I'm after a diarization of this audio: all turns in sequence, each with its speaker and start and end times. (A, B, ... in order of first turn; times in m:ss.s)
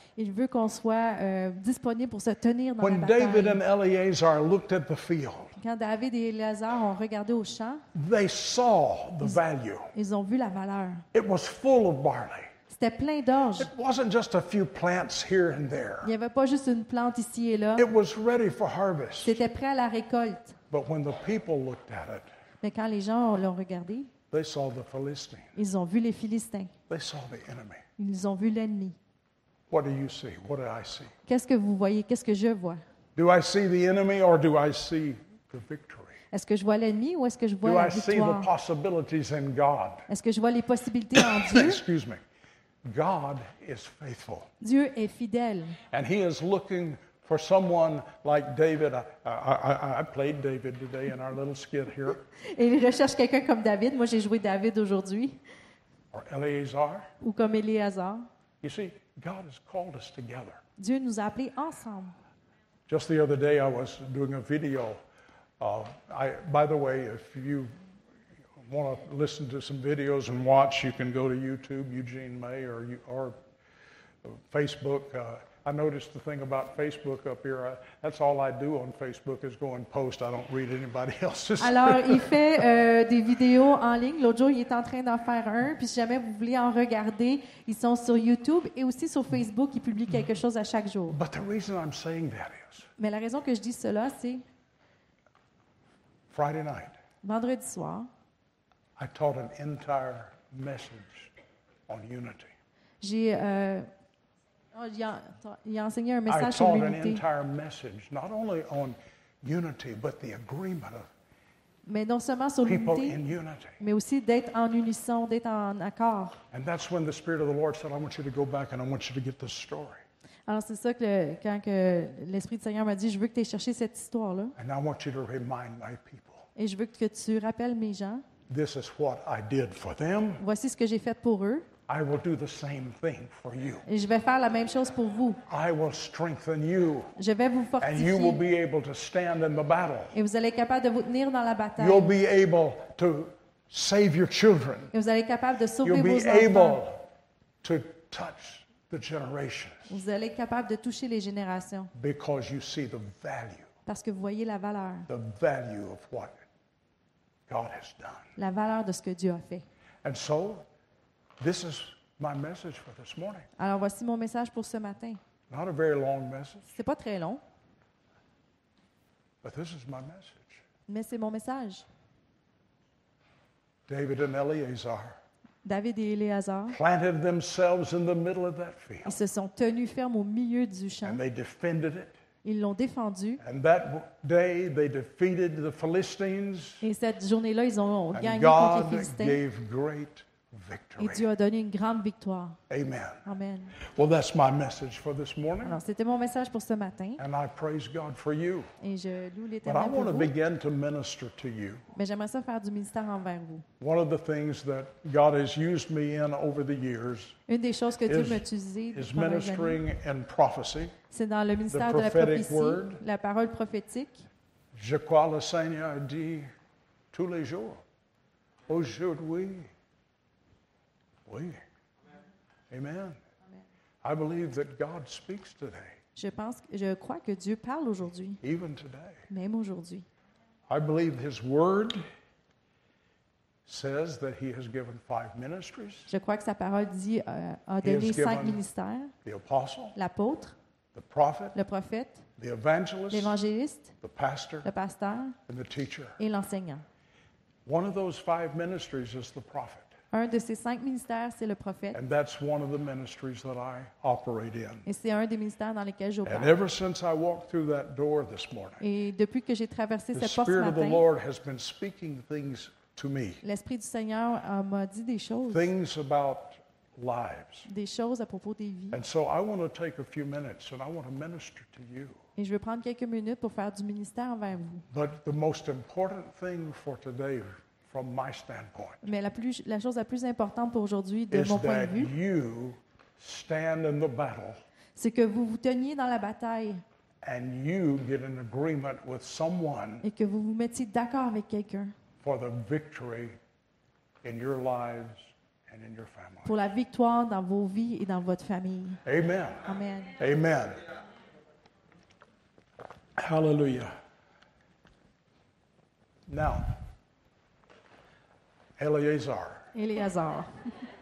0:00.2-0:03.6 A
0:02.8-0:05.6 B
0:05.6-0:07.8 A
0:07.9-0:09.9 B
0:09.9-0:11.1 A
0:11.1-0:12.5 B
0:12.7-0:13.7 A
0:13.6-0:16.1 B
0:16.0-0:17.9 A
0:17.8-0:19.4 B
0:19.2-0:20.6 A
0:20.7-0:22.3 B
0:22.6-0:24.1 A
0:24.3-0:25.5 B
0:25.6-0:26.7 A
0:26.9-0:27.8 B
0:28.0-0:29.0 A
0:29.7-0:31.1 B
0:31.3-0:32.8 A
0:33.2-0:36.2 B
0:36.3-0:38.5 A
0:37.6-0:40.1 B
0:40.1-0:41.8 A
0:41.2-0:42.2 B
0:42.8-0:44.5 B
0:44.6-0:45.8 A
0:45.9-0:52.2 B
0:52.4-0:55.4 A
0:56.1-0:57.1 B
0:57.2-0:58.3 A
0:58.6-1:00.6 B
1:00.8-1:02.2 A
1:02.9-1:05.0 B
1:05.6-1:07.7 B
1:08.6-1:13.4 B
1:14.2-1:22.6 B
1:21.6-1:31.2 A
1:31.1-1:32.9 B
1:33.0-1:34.4 A
1:36.3-1:36.9 B
1:37.2-1:38.1 A
1:39.0-1:41.3 B
1:41.9-1:42.5 B
1:43.0-1:43.9 A
1:44.7-1:47.2 A
1:46.3-1:51.1 B
1:51.9-1:53.2 A
1:52.6-1:53.8 B
1:53.8-1:56.4 A
1:56.5-2:00.0 B
2:00.5-2:04.6 A
2:04.6-2:06.4 B
2:06.6-2:08.2 A
2:08.5-2:10.4 B
2:10.4-2:11.7 A
2:11.9-2:13.8 B
2:13.8-2:15.4 A
2:15.5-2:17.1 B
2:17.2-2:18.4 A
2:17.8-2:20.2 B
2:20.1-2:22.2 A
2:21.8-2:24.9 B
2:24.9-2:26.8 A
2:25.8-2:27.1 B
2:27.6-2:30.0 B
2:29.9-2:31.9 A
2:31.9-2:33.7 B
2:33.9-2:35.1 A
2:35.1-2:36.4 B
2:37.5-2:38.3 B
2:38.4-2:39.6 A
2:40.0-2:40.7 B
2:41.4-2:43.5 B
2:43.6-2:45.2 A
2:45.5-2:46.7 B
2:46.7-2:47.4 A
2:49.4-2:50.6 B
2:50.9-2:51.8 A
2:53.9-2:55.2 B
2:55.6-2:56.8 A
2:56.7-2:59.2 B
2:59.0-3:01.2 A
3:01.0-3:02.1 B
3:02.4-3:03.4 A
3:03.4-3:06.8 B
3:06.8-3:09.4 A
3:08.1-3:11.3 B
3:11.0-3:12.6 A
3:12.7-3:13.2 B
3:13.2-3:13.8 A
3:13.8-3:15.8 B
3:15.6-3:17.2 A
3:17.2-3:18.7 B
3:18.8-3:20.3 A
3:19.6-3:21.8 B
3:21.9-3:23.6 A
3:23.8-3:27.4 B
3:27.5-3:29.8 A
3:28.1-3:31.0 B
3:31.1-3:34.2 A
3:31.7-3:33.0 B
3:34.7-3:36.5 B
3:37.1-3:37.8 B
3:38.7-3:39.7 B
3:41.3-3:41.6 B
3:42.7-3:43.2 B
3:44.0-3:46.0 B
3:46.2-3:48.4 A
3:48.4-3:49.2 B
3:49.3-3:50.1 A
3:50.7-3:52.0 B
3:53.7-3:56.1 B
3:56.1-3:59.1 A
3:57.8-3:58.6 B
3:59.2-4:00.0 B
4:00.0-4:00.6 A
4:01.0-4:01.6 B
4:01.5-4:02.2 A
4:02.4-4:03.4 B
4:03.1-4:03.9 A
4:04.0-4:04.7 B
4:04.6-4:05.4 A
4:05.5-4:06.2 B
4:06.2-4:06.8 A
4:07.6-4:09.9 B
4:10.1-4:12.0 A
4:11.9-4:14.9 B
4:14.8-4:16.5 A
4:16.2-4:18.8 B
4:18.8-4:21.0 A
4:20.1-4:23.4 B
4:23.4-4:25.7 A
4:25.5-4:27.7 B
4:27.7-4:29.0 A
4:28.9-4:32.2 B
4:32.4-4:34.8 A
4:34.9-4:39.0 B
4:39.0-4:42.1 A
4:41.3-4:44.6 B
4:45.0-4:46.8 A
4:47.2-4:50.0 B
4:50.0-4:51.9 A
4:52.2-4:53.4 B
4:54.2-4:56.6 B
4:56.4-4:59.0 A
4:59.0-5:00.8 B
4:59.7-5:00.1 A
5:03.2-5:03.9 B
5:06.3-5:06.8 B
5:08.8-5:09.7 B
5:09.7-5:10.7 A